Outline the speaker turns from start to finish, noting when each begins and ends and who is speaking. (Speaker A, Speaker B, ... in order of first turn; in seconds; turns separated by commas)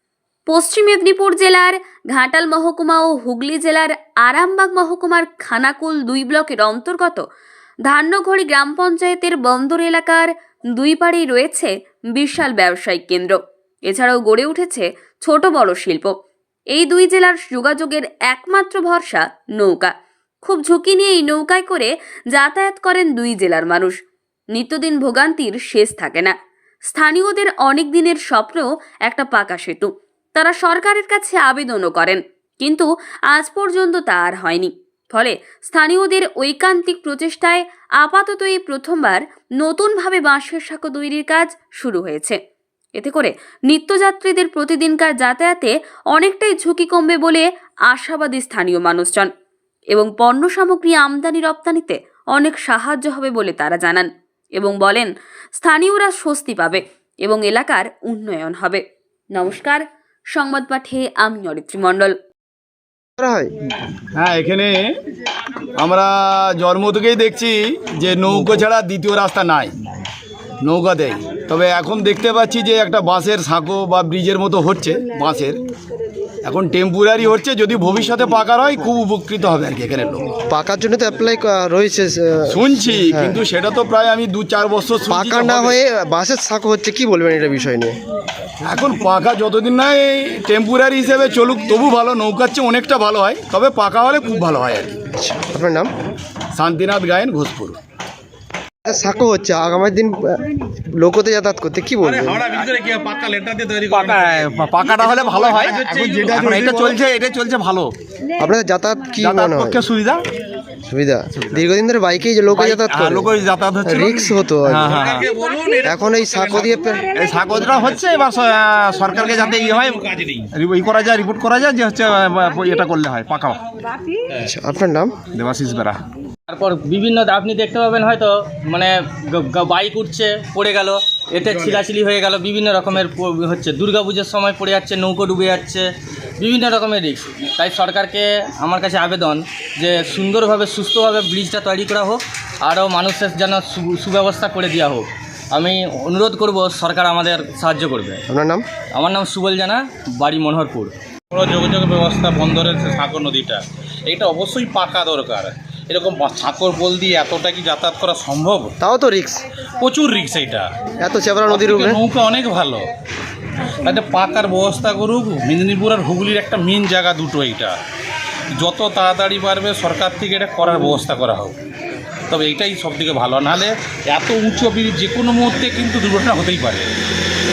Speaker A: 0.5-7.2, Speaker A: 7.9-16.1, Speaker A: 16.7-24.0, Speaker A: 24.6-26.3, Speaker A: 26.9-42.4, Speaker A: 43.0-49.3, Speaker A: 49.9-58.8, Speaker A: 59.3-62.2, Speaker B: 63.2-63.5, Speaker C: 64.2-64.9, Speaker C: 65.8-69.7, Speaker C: 70.6-75.6, Speaker C: 76.4-80.4, Speaker B: 80.5-83.4, Speaker C: 82.5-85.8, Speaker B: 85.1-88.0, Speaker C: 88.6-95.0, Speaker B: 95.1-95.9, Speaker C: 96.5-97.8, Speaker B: 98.8-102.4, Speaker D: 102.0-106.6, Speaker E: 103.9-107.9, Speaker C: 105.8-107.0, Speaker B: 108.4-109.8, Speaker E: 109.2-110.2, Speaker B: 110.9-113.3, Speaker E: 112.7-114.2, Speaker B: 113.9-115.0, Speaker E: 114.7-115.2, Speaker D: 114.9-116.7, Speaker B: 115.8-117.1, Speaker E: 117.2-119.9, Speaker D: 119.2-120.5, Speaker E: 120.6-123.6, Speaker B: 124.3-125.2, Speaker E: 125.4-126.0, Speaker F: 126.5-148.2, Speaker B: 148.3-148.6, Speaker F: 148.9-150.9, Speaker D: 151.3-158.7, Speaker B: 158.8-159.4, Speaker D: 159.8-160.7, Speaker B: 161.0-162.0, Speaker D: 161.5-162.9, Speaker D: 163.6-167.8, Speaker D: 168.6-171.6, Speaker D: 172.3-176.9